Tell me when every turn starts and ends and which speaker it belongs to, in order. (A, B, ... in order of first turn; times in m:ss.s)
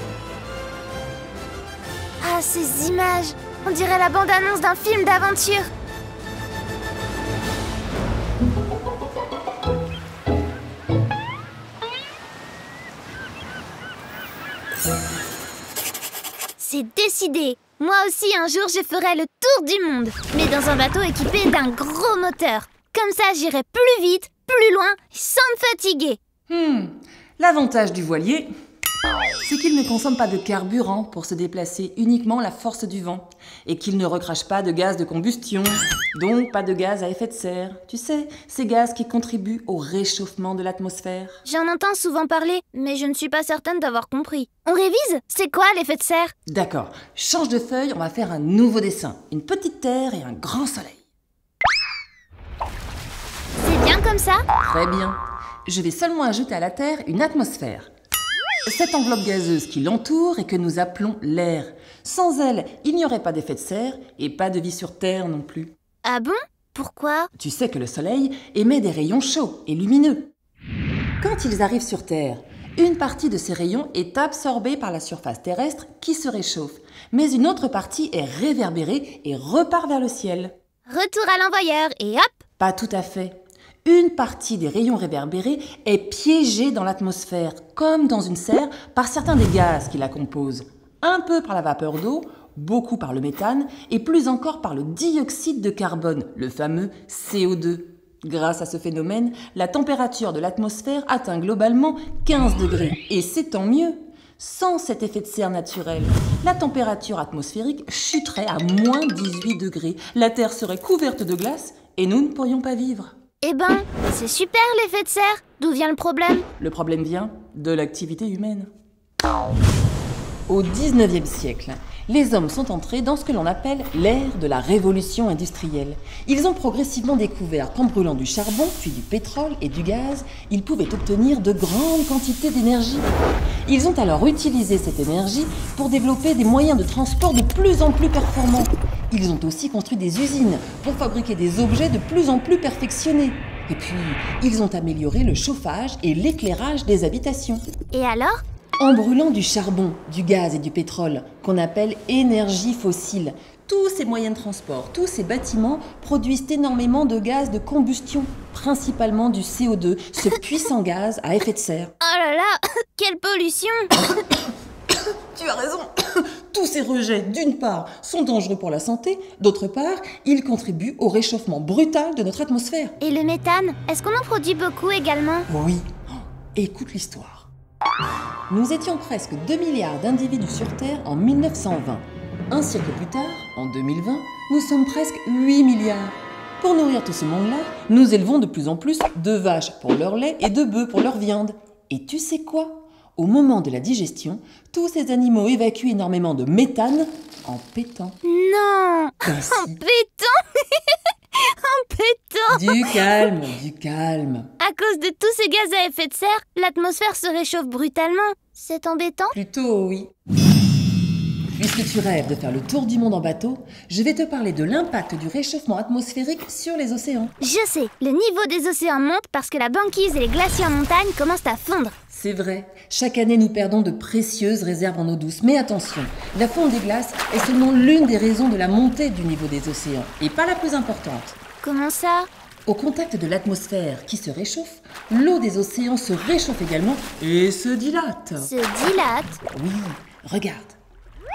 0:02.2-0:05.7 A
0:16.6-0:26.2 A
0:26.5-0:28.5 B
0:29.4-0:41.4 B
0:41.4-0:46.3 A
0:46.5-0:51.0 B
0:53.6-0:54.4 A
0:54.6-0:57.9 B
0:58.7-1:05.7 B
1:06.0-1:07.3 A
1:07.4-1:10.3 B
1:11.2-1:20.5 B
1:20.9-1:22.4 A
1:22.6-1:53.1 B
1:53.4-1:56.5 A
1:56.6-1:58.7 B
2:00.5-2:13.1 B
2:13.7-2:27.6 B
2:27.9-2:28.4 A
2:28.8-2:41.9 B
2:42.0-2:43.9 A
2:45.3-2:53.0 B
2:53.0-2:55.5 A
2:55.5-2:55.9 B
2:56.5-2:57.5 B
2:58.5-3:18.2 B
3:18.2-3:23.1 A
3:19.2-3:19.8 B
3:22.5-3:24.5 B
3:24.6-3:29.4 A
3:29.3-3:30.1 B
3:31.6-3:37.3 B
3:37.4-3:41.9 A
3:42.1-3:51.4 B
3:51.6-3:52.3 A
3:52.7-3:58.5 B
3:58.4-3:59.4 A
3:59.5-4:00.8 B